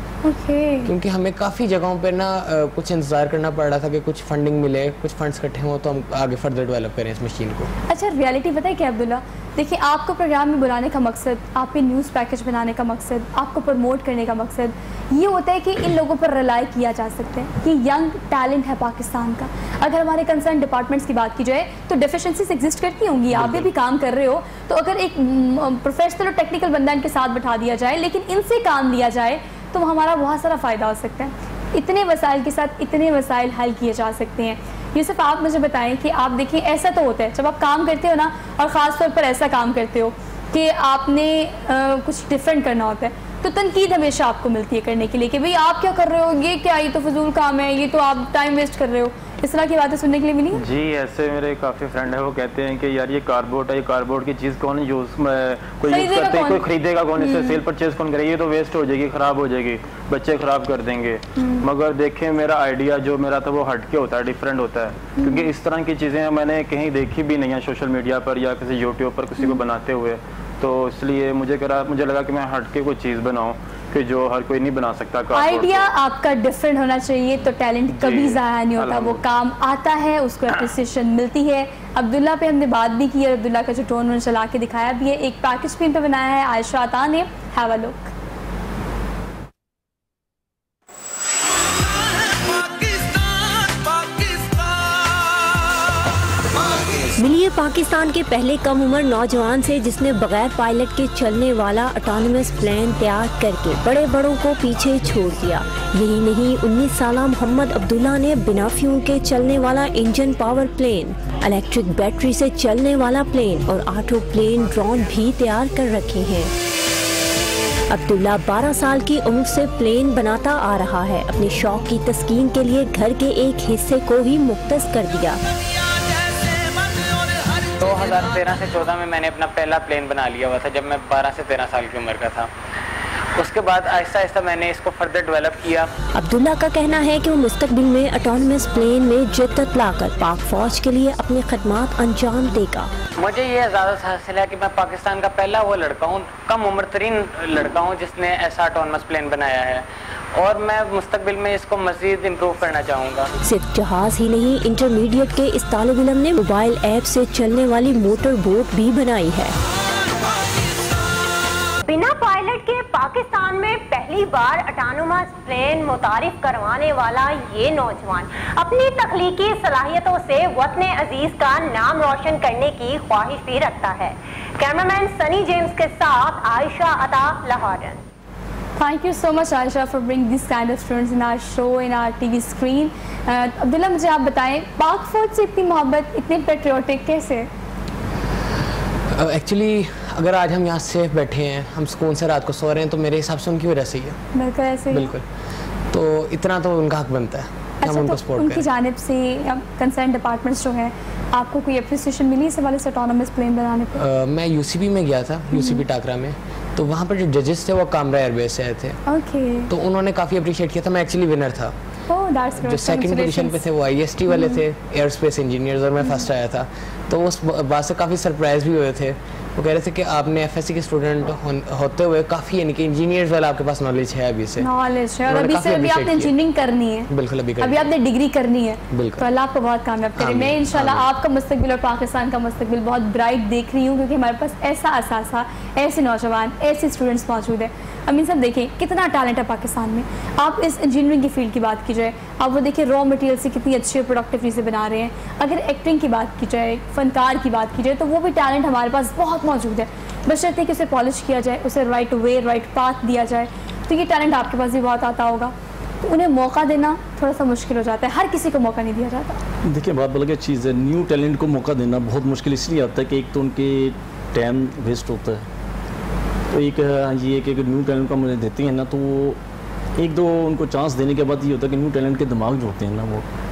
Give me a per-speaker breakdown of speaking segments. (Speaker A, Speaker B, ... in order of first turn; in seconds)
Speaker A: 0.2-0.9, 7.9-50.6, 55.9-56.6, 57.2-57.6, 61.4-61.7, 65.2-65.5, 75.3-88.1, 178.8-187.5, 194.3-195.1, 197.8-204.0, 205.5-205.8, 209.1-209.7, 212.1-213.6, 214.3-214.6, 224.6-259.4
Speaker B: 0.8-7.7, 189.1-194.2, 194.9-195.2, 195.9-198.7, 203.9-209.0, 209.7-211.7, 212.5-224.7, 225.3-226.3, 227.1-227.9, 228.9-229.2, 230.2-231.1
Speaker C: 50.5-75.9, 77.9-79.2
Speaker D: 97.2-116.5, 117.9-125.4, 136.1-142.9, 153.4-159.6
Speaker E: 127.6-132.5, 133.3-135.9, 143.2-153.3
Speaker F: 161.9-178.0
Speaker G: 259.7-265.5, 266.5-269.4, 270.0-273.3